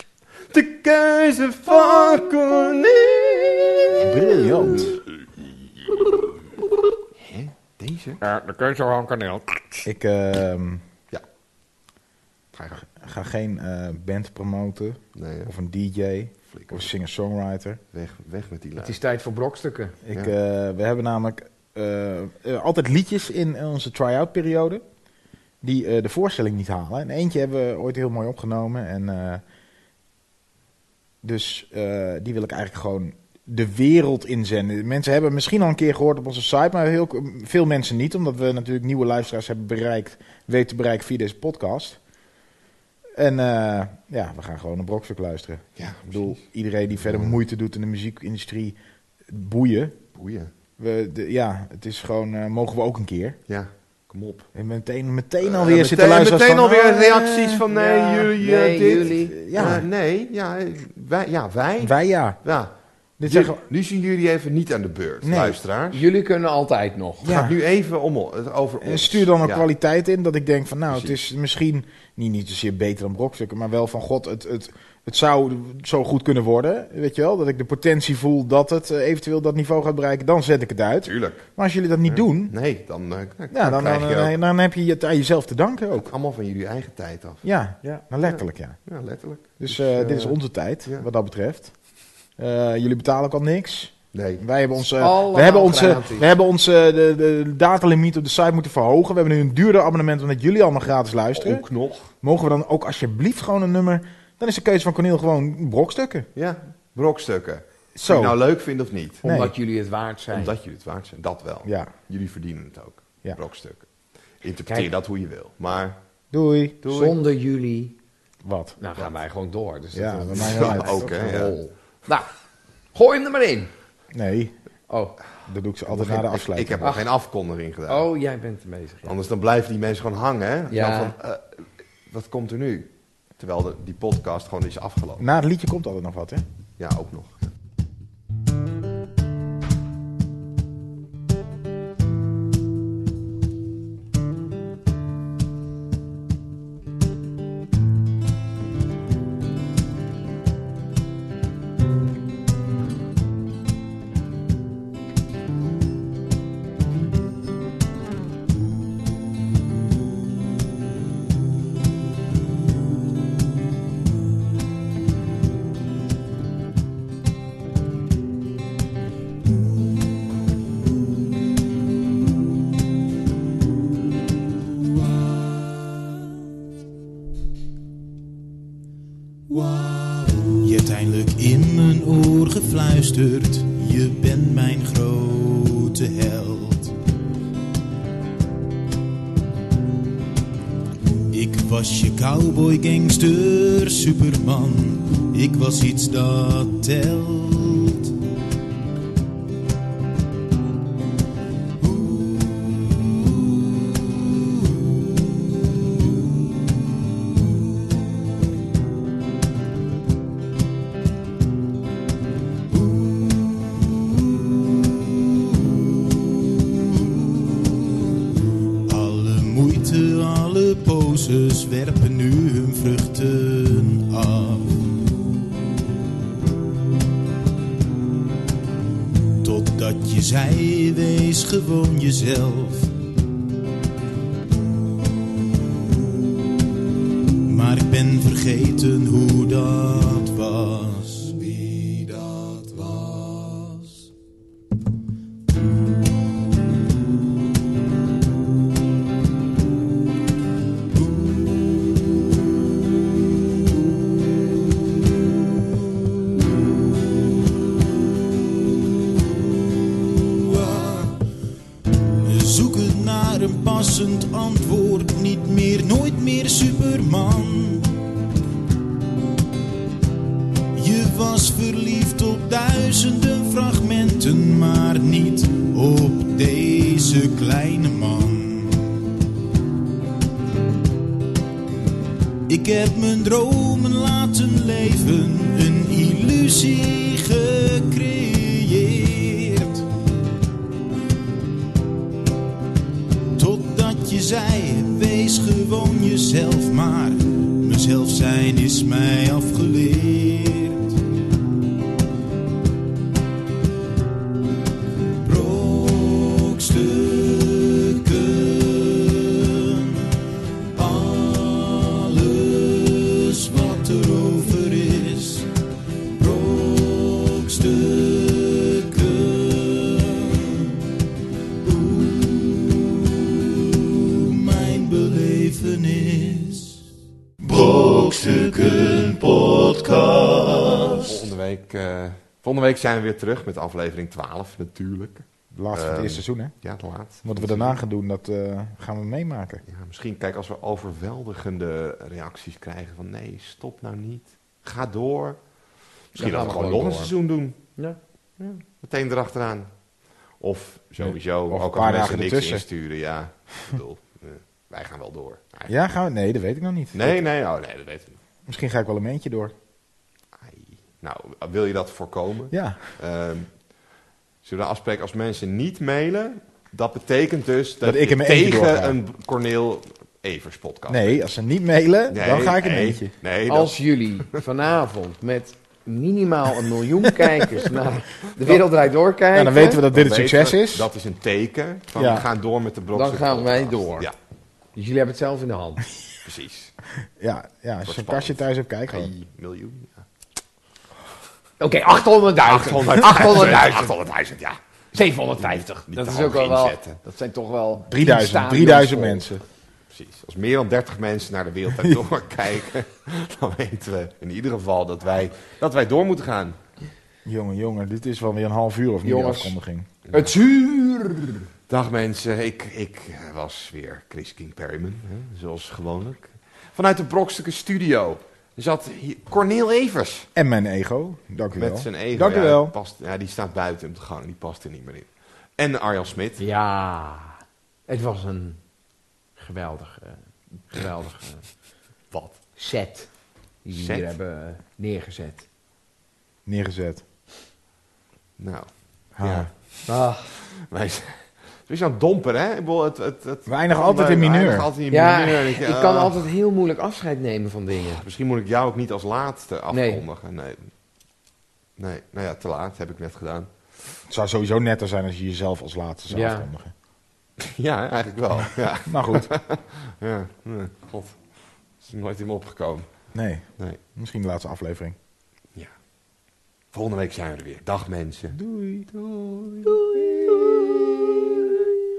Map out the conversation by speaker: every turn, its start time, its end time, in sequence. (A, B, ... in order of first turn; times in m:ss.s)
0:00.5-0:04.1 A
0:04.0-0:05.0 B
0:07.2-0:08.2 A
0:08.2-0:09.8 C
0:09.8-0:10.8 B
0:12.5-0:12.8 A
0:12.8-0:17.8 B
0:15.1-0:15.5 A
0:16.4-0:16.9 A
0:17.9-0:19.0 A
0:18.8-0:19.9 C
0:20.0-0:24.8 B
0:25.6-0:29.4 B
0:31.2-0:42.0 B
0:43.1-0:50.0 B
0:45.8-0:46.4 A
0:47.0-0:47.4 A
0:50.1-0:50.5 A
0:50.8-0:53.4 B
0:53.5-0:54.5 A
0:54.5-0:57.6 B
0:55.4-1:02.7 A
0:57.7-0:59.3 C
0:59.1-0:59.8 B
1:01.8-1:02.4 B
1:03.2-1:03.6 B
1:03.2-1:06.0 A
1:05.2-1:05.6 B
1:05.9-1:07.4 C
1:07.2-1:07.5 B
1:07.2-1:09.6 A
1:08.8-1:22.5 B
1:10.9-1:11.1 A
1:21.0-1:21.5 A
1:22.0-1:24.3 A
1:23.5-1:26.1 B
1:26.0-1:27.4 A
1:27.4-1:28.8 B
1:28.2-1:31.0 A
1:29.6-1:31.7 B
1:32.4-1:41.6 B
1:34.1-1:34.4 A
1:35.0-1:36.3 C
1:41.3-1:42.1 A
1:42.2-1:46.3 B
1:46.3-1:49.2 A
1:48.0-1:48.4 B
1:49.2-1:50.5 C
1:49.2-1:49.5 B
1:50.3-1:53.8 A
1:51.6-1:51.9 B
1:54.4-1:56.0 A
1:54.7-1:54.9 C
1:56.3-1:56.8 B
1:56.8-1:57.2 A
1:56.8-1:57.9 C
1:58.4-1:58.8 B
1:58.8-2:02.3 C
1:59.9-2:01.1 B
2:00.4-2:01.6 A
2:02.9-2:03.7 C
2:04.1-2:04.5 B
2:04.9-2:05.2 C
2:05.5-2:06.9 B
2:05.9-2:08.0 A
2:06.8-2:07.1 C
2:07.9-2:09.1 C
2:09.0-2:15.2 A
2:10.7-2:11.1 C
2:15.2-2:16.4 B
2:16.8-2:17.4 A
3:00.3-3:06.9 D
3:11.3-3:18.1 D
3:21.8-3:26.5 D
3:32.7-3:38.1 D
3:38.8-3:45.0 D
3:49.4-3:52.9 D
3:57.4-4:01.5 D
4:19.9-4:21.2 D
4:22.2-4:28.0 D
4:30.7-4:39.0 D
4:42.5-4:49.8 D
4:53.4-5:01.0 D
5:05.2-5:15.5 D
5:16.2-5:20.9 D
5:21.6-5:26.8 D
5:27.4-5:31.2 D
5:31.0-5:37.8 A
5:35.5-5:36.6 B
5:37.2-5:39.6 B
5:39.6-5:45.5 A
5:46.1-5:47.7 A
5:46.1-5:47.1 C
5:48.4-5:49.7 A
5:50.4-5:55.7 A
5:51.0-5:52.6 B
5:55.7-5:57.2 B
5:56.9-5:58.2 A
5:58.5-5:59.5 B
6:00.4-6:03.6 A
6:02.5-6:02.8 B
6:04.4-6:11.2 A
6:07.8-6:09.0 B
6:10.9-6:13.1 B
6:12.1-6:13.8 A
6:13.5-6:19.8 C
6:19.3-6:20.9 B
6:19.9-6:24.1 A
6:22.0-6:22.3 B
6:22.9-6:24.1 C
6:24.7-6:25.8 C
6:26.2-6:26.7 A
6:27.2-6:29.1 B
6:27.8-6:28.4 A
6:28.9-6:30.0 A
6:31.6-6:33.9 C
6:32.4-6:34.6 A
6:34.9-6:39.2 C
6:35.4-6:37.0 A
6:37.9-6:39.4 B
6:39.9-6:46.6 A
6:47.2-6:49.9 B
6:49.0-6:49.6 C
6:50.1-6:51.4 C
6:51.7-7:00.3 A
7:00.3-7:02.7 B
7:01.5-7:06.4 A
7:06.4-7:08.6 C
7:09.4-7:11.5 C
7:12.1-7:12.4 A
7:12.6-7:13.1 C
7:13.6-7:15.4 C
7:13.7-7:14.1 A
7:16.4-7:17.0 B
7:18.4-7:19.5 A
7:19.2-7:19.5 B
7:19.9-7:20.3 C
7:20.4-7:26.2 A
7:23.5-7:24.7 B
7:24.9-7:28.0 C
7:27.9-7:30.7 A
7:29.7-7:30.0 C
7:31.8-7:33.7 A
7:34.1-7:36.7 B
7:36.1-7:36.5 C
7:37.4-7:41.2 A
7:38.9-7:39.3 B
7:41.8-7:42.9 A
7:43.1-7:44.9 B
7:46.7-7:49.8 A
7:48.3-7:48.8 B
7:49.7-7:50.7 B